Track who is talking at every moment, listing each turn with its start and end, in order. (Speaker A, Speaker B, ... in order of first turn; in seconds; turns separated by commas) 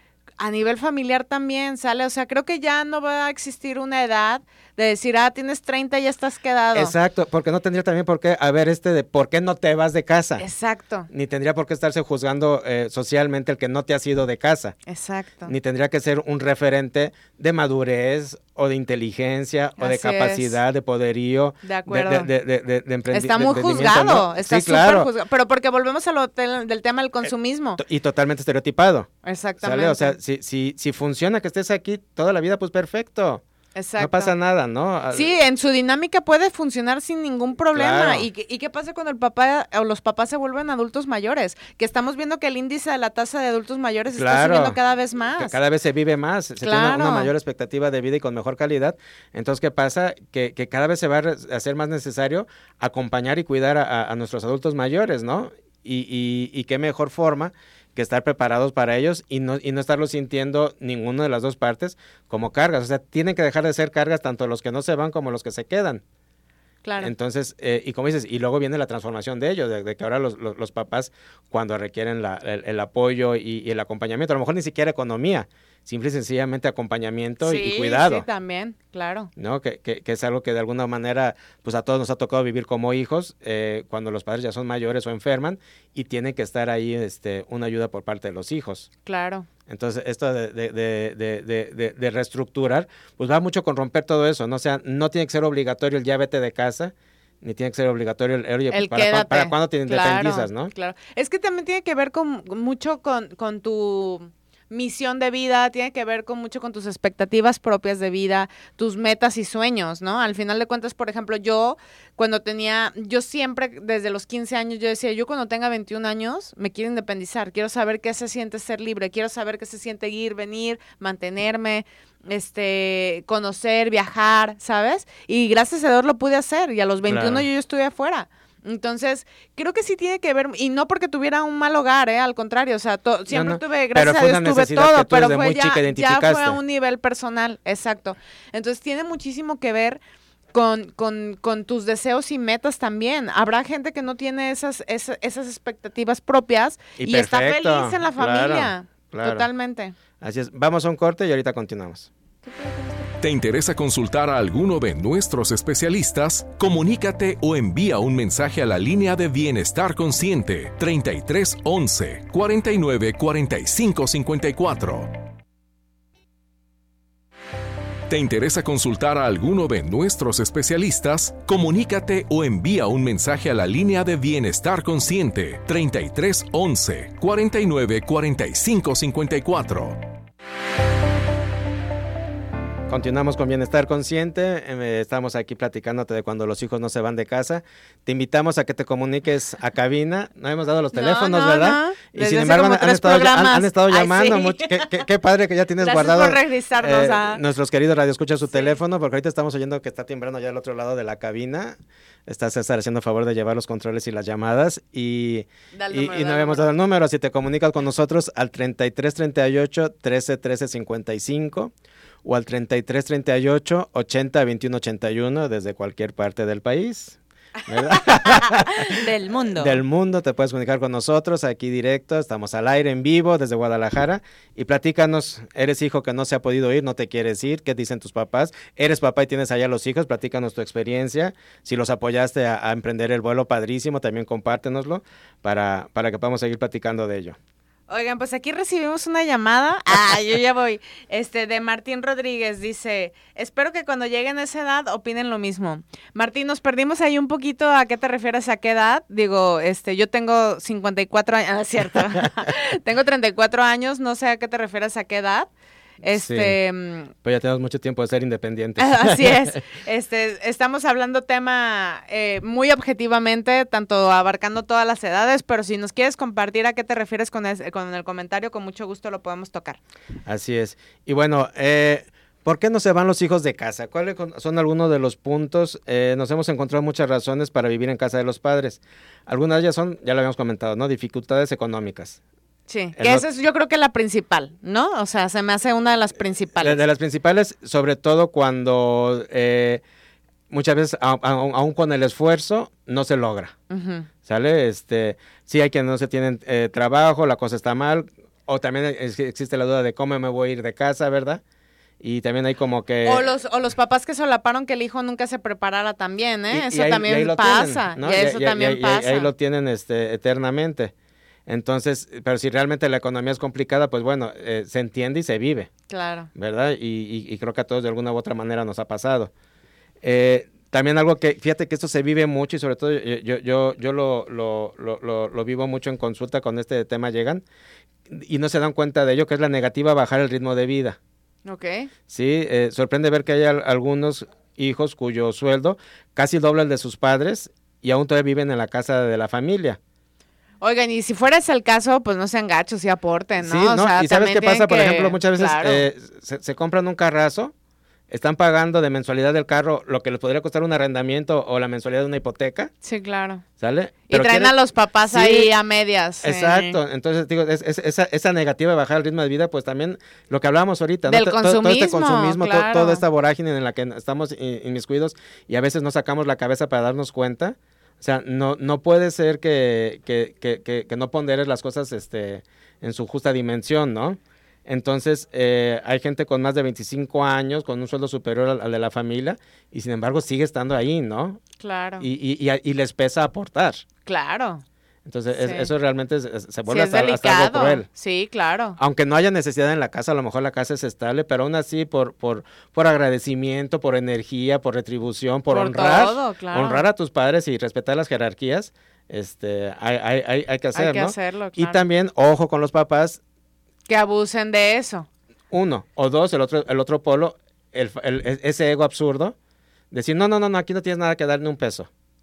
Speaker A: 0.4-6.9, Speaker B: 6.7-10.4, Speaker A: 10.4-11.1, Speaker B: 11.1-14.8, Speaker A: 14.9-15.5, Speaker B: 15.5-25.1, Speaker A: 19.8-20.6, Speaker A: 21.6-22.3, Speaker A: 23.1-27.8, Speaker B: 27.8-29.1, Speaker A: 29.2-30.2, Speaker B: 29.6-33.4, Speaker A: 33.8-34.3, Speaker B: 34.0-35.3, Speaker A: 35.1-45.6, Speaker B: 37.7-38.3, Speaker B: 44.2-44.8, Speaker B: 45.4-66.0, Speaker A: 46.6-47.3, Speaker A: 66.8-67.1, Speaker B: 67.0-78.3, Speaker A: 77.4-79.3, Speaker B: 79.4-88.9, Speaker A: 89.1-89.5, Speaker B: 89.7-100.7, Speaker A: 98.7-140.0, Speaker B: 127.1-127.5, Speaker B: 133.3-136.6, Speaker A: 140.5-149.9, Speaker B: 147.0-149.5, Speaker B: 150.2-152.1, Speaker A: 152.4-153.1, Speaker C: 153.2-165.1, Speaker C: 168.1-180.0, Speaker B: 182.9-201.8, Speaker A: 190.9-195.0, Speaker A: 195.8-197.4, Speaker A: 198.5-198.8, Speaker B: 202.3-211.7, Speaker A: 205.7-206.7, Speaker B: 212.2-237.4, Speaker A: 217.7-219.8, Speaker A: 237.9-255.5, Speaker A: 256.0-257.1, Speaker B: 256.1-256.6, Speaker B: 257.2-259.6, Speaker A: 258.8-269.8, Speaker B: 270.3-282.2, Speaker A: 282.7-286.8, Speaker B: 283.0-283.2, Speaker B: 286.6-289.8, Speaker B: 290.5-293.5, Speaker A: 293.7-294.1, Speaker B: 294.3-301.4, Speaker B: 302.0-303.3, Speaker A: 303.1-309.3, Speaker B: 306.5-310.9, Speaker B: 311.5-315.7, Speaker A: 315.9-316.3, Speaker B: 316.4-319.3, Speaker B: 320.0-327.4, Speaker B: 328.1-331.0, Speaker A: 331.5-331.9, Speaker B: 332.1-339.8, Speaker A: 340.6-345.9, Speaker B: 343.4-347.5, Speaker B: 348.1-352.7, Speaker A: 352.8-353.4, Speaker B: 353.6-354.6, Speaker A: 354.1-356.8, Speaker B: 355.1-355.5, Speaker B: 356.2-381.4, Speaker A: 361.1-363.1, Speaker A: 381.6-382.1, Speaker B: 382.0-383.8, Speaker A: 384.1-384.6, Speaker B: 385.1-387.9, Speaker A: 385.3-385.7, Speaker A: 386.7-388.8, Speaker B: 388.8-403.2, Speaker A: 395.5-396.8, Speaker A: 400.8-401.8, Speaker A: 403.9-405.1, Speaker B: 405.5-409.4, Speaker B: 409.9-411.9